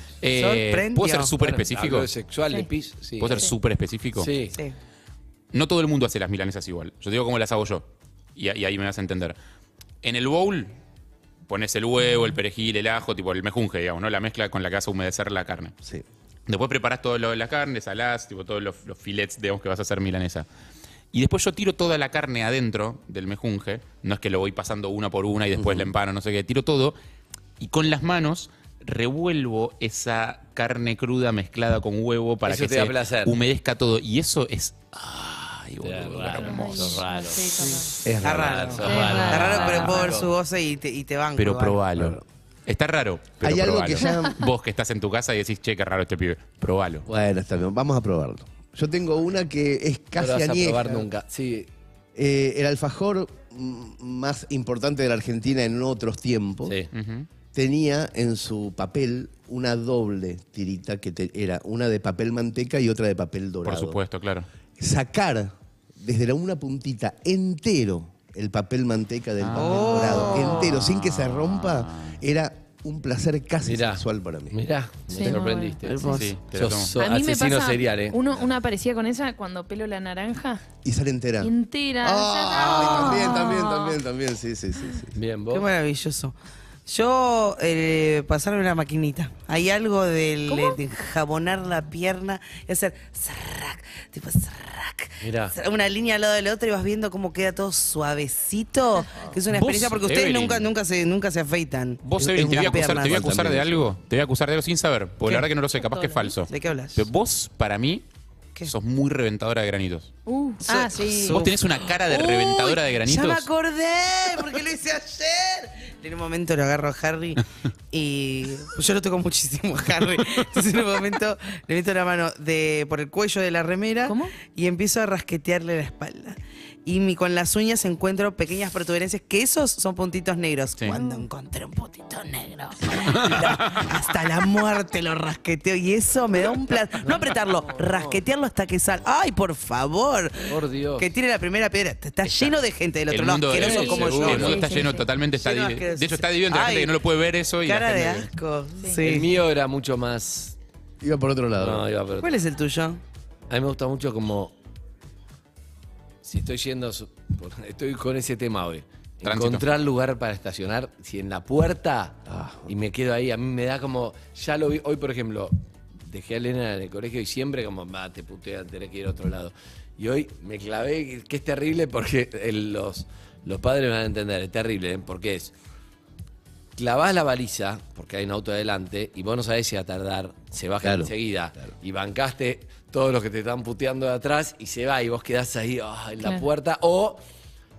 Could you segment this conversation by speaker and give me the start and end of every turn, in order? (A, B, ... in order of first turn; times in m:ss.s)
0:00.2-0:02.1 A
0:00.3-0:01.3 B
0:01.4-0:03.4 C
0:03.2-0:04.3 A
0:04.2-0:04.6 C
0:05.5-0:09.4 A
0:10.0-0:10.7 A
0:11.5-0:15.7 A
0:16.5-0:20.5 A
0:21.1-0:27.0 A
0:25.6-0:25.9 D
0:27.6-0:37.0 A
0:32.4-0:33.4 C
0:35.8-0:37.7 C
0:36.4-0:38.0 E
0:37.6-0:41.8 B
0:38.0-0:39.1 D
0:38.2-0:40.3 C
0:38.8-0:40.1 E
0:41.4-0:47.0 A
0:43.4-0:44.4 D
0:47.1-0:51.1 D
0:50.2-0:51.7 C
0:52.2-0:56.8 D
0:56.9-0:57.3 A
0:57.5-1:04.0 D
1:03.6-1:04.5 A
1:04.8-1:14.6 D
1:09.4-1:12.2 A
1:09.6-1:10.6 B
1:13.6-1:18.2 C
1:15.1-1:16.2 E
1:15.9-1:16.4 B
1:16.1-1:16.9 A
1:17.0-1:20.6 E
1:20.8-1:25.2 D
1:21.4-1:24.0 E
1:22.8-1:23.1 B
1:25.2-1:25.7 C
1:25.5-1:26.4 B
1:26.9-1:43.3 B
1:30.5-1:30.8 E
1:35.2-1:35.6 C
1:39.5-1:40.7 A
1:42.0-1:48.0 A
1:42.2-1:43.8 D
1:45.8-1:46.3 E
1:46.5-1:47.0 B
1:48.7-1:50.1 A
1:50.3-1:51.4 E
1:50.6-2:27.0 B
1:51.2-1:53.5 A
2:04.1-2:04.3 E
2:10.9-2:11.2 E
2:13.1-2:13.9 A
2:17.1-2:18.2 C
2:20.5-2:21.1 C
2:23.1-2:28.3 A
2:23.5-2:24.6 C
2:23.6-2:25.0 E
2:27.6-2:29.3 B
2:29.0-2:30.6 C
2:31.0-2:31.8 D
2:31.6-2:32.3 C
2:32.2-2:33.0 B
2:33.5-2:34.5 C
2:36.2-2:55.5 C
2:39.2-2:39.6 A
2:42.3-2:42.7 D
2:56.8-3:07.2 C
3:00.8-3:01.1 D